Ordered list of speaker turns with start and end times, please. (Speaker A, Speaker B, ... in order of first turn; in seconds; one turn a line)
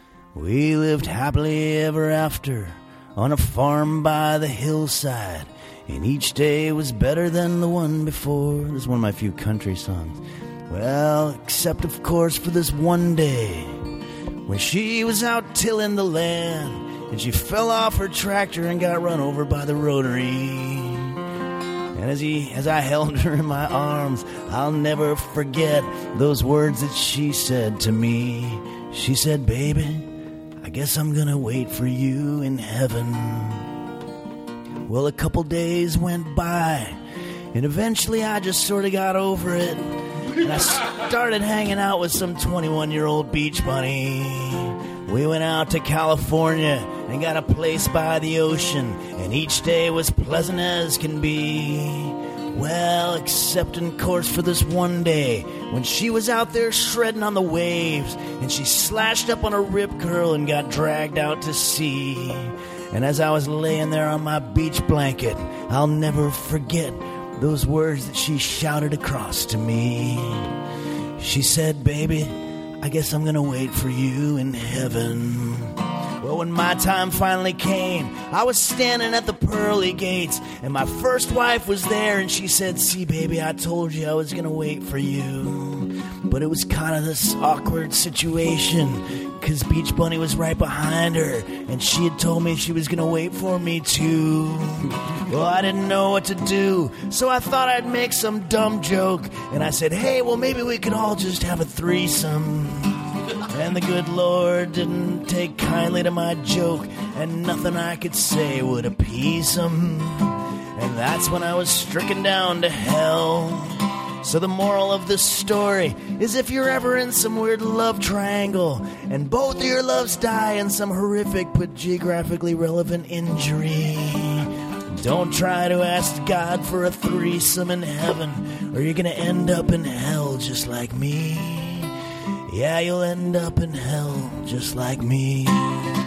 Speaker A: 0.3-13.8
Speaker A: 14.5-21.2
Speaker A: 21.9-33.7
Speaker A: 34.9-37.0
Speaker A: 37.5-70.5
Speaker A: 71.2-131.9
Speaker A: 132.5-135.9